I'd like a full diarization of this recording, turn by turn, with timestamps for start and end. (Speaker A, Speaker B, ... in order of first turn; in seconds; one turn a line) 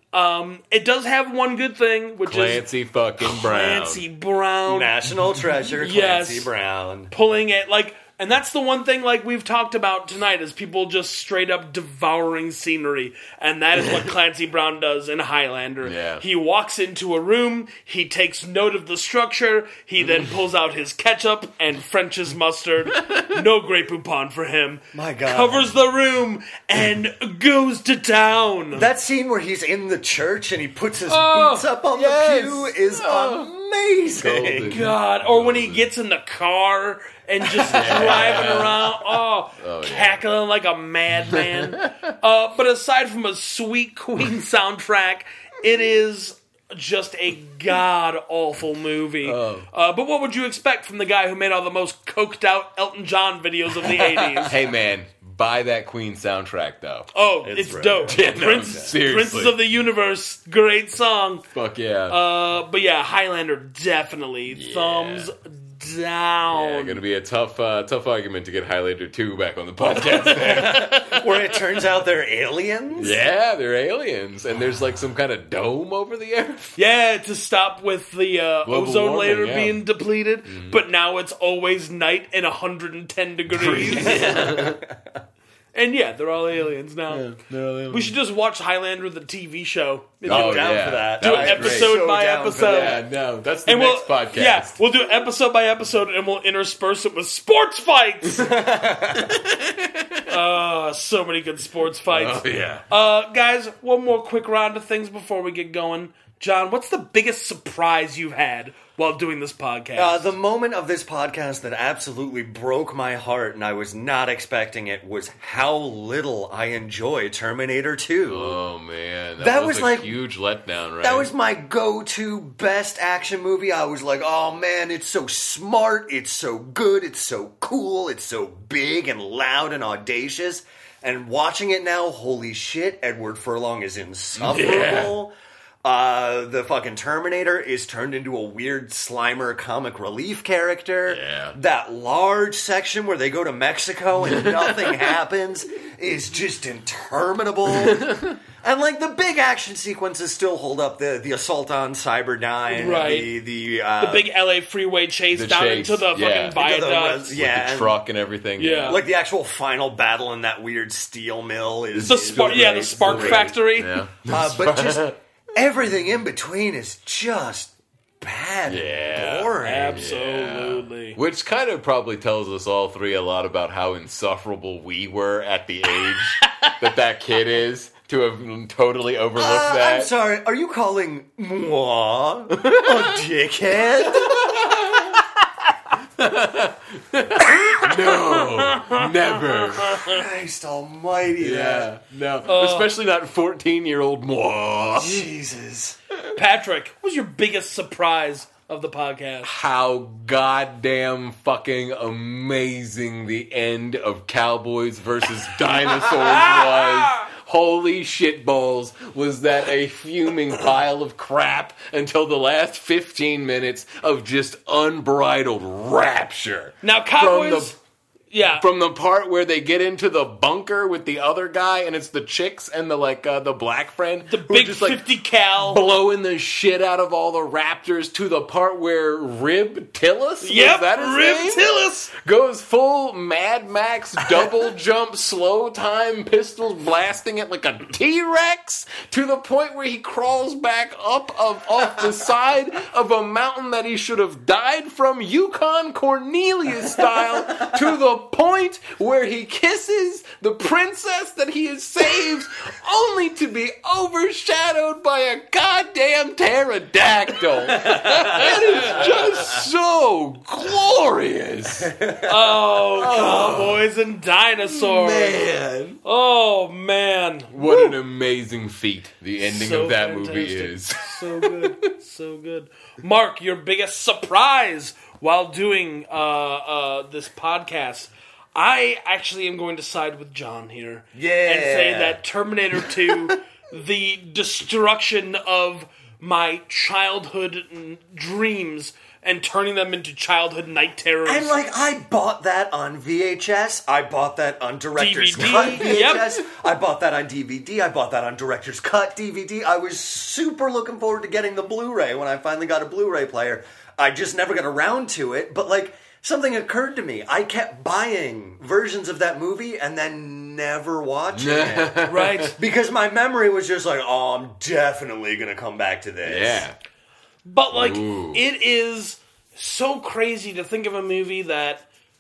Speaker A: 0.1-2.6
Speaker B: 2.2-4.0
Speaker A: 3.2-4.9
Speaker C: 4.7-7.1
Speaker A: 5.8-6.5
Speaker A: 7.1-28.9
Speaker B: 15.8-16.2
Speaker B: 22.9-23.4
Speaker C: 24.9-25.7
Speaker C: 28.7-34.8
Speaker A: 31.1-31.7
Speaker B: 31.9-33.5
Speaker B: 34.1-35.9
Speaker A: 34.7-54.6
Speaker B: 37.6-40.2
Speaker B: 41.4-41.9
Speaker B: 49.2-49.7
Speaker B: 54.5-57.1
Speaker A: 57.1-61.5
Speaker C: 57.4-58.8
Speaker B: 58.1-59.6
Speaker B: 61.5-62.2
Speaker A: 62.1-67.0
Speaker B: 64.5-65.3
Speaker B: 66.5-71.1
Speaker A: 70.0-71.3
Speaker C: 70.6-73.2
Speaker B: 73.0-76.7
Speaker A: 76.8-84.4
Speaker B: 78.7-79.8
Speaker B: 80.5-80.8
Speaker B: 83.5-84.8
Speaker C: 84.1-84.9
Speaker A: 85.7-87.3
Speaker B: 87.1-88.2
Speaker A: 87.9-93.0
Speaker C: 90.2-93.0
Speaker B: 90.3-92.0
Speaker B: 92.6-94.8
Speaker A: 93.7-98.5
Speaker C: 98.4-99.4
Speaker B: 99.1-100.3
Speaker A: 100.3-110.3
Speaker B: 102.1-102.8
Speaker C: 110.0-118.6
Speaker B: 118.3-121.3
Speaker C: 119.4-120.2
Speaker C: 121.0-135.3
Speaker B: 134.4-135.2
Speaker C: 135.8-154.3
Speaker B: 141.1-141.6
Speaker B: 144.4-144.7
Speaker B: 147.8-148.4
Speaker A: 152.7-153.3
Speaker A: 154.0-157.4
Speaker B: 155.3-156.6
Speaker C: 156.6-158.0
Speaker B: 157.3-159.0
Speaker A: 158.6-159.0
Speaker C: 158.9-163.6
Speaker B: 162.0-165.2
Speaker A: 162.0-164.0
Speaker C: 164.3-170.1
Speaker B: 168.7-180.1
Speaker A: 169.6-171.2
Speaker A: 176.1-176.8
Speaker C: 179.4-184.8
Speaker B: 182.6-183.2
Speaker B: 184.1-185.2
Speaker B: 186.2-190.1
Speaker A: 188.0-189.0
Speaker A: 189.8-190.1
Speaker C: 190.0-191.9
Speaker B: 191.4-195.3
Speaker A: 192.5-192.9
Speaker C: 195.0-196.0
Speaker A: 196.3-199.6
Speaker B: 199.4-217.7
Speaker A: 206.2-207.3
Speaker A: 216.8-217.8
Speaker A: 218.3-218.7
Speaker B: 218.4-225.0
Speaker A: 224.3-225.8
Speaker B: 225.6-261.9
Speaker A: 230.4-232.1
Speaker A: 257.7-259.6
Speaker C: 257.9-259.4
Speaker C: 261.8-262.3
Speaker A: 262.2-265.5
Speaker B: 262.9-263.9
Speaker B: 264.7-266.0
Speaker A: 266.0-268.0
Speaker B: 267.5-271.8
Speaker A: 269.4-291.6
Speaker C: 281.1-282.2
Speaker C: 291.2-316.6
Speaker A: 295.0-296.4
Speaker B: 311.4-312.5
Speaker A: 312.1-312.6
Speaker B: 316.2-316.8
Speaker A: 317.4-321.9
Speaker B: 317.7-318.4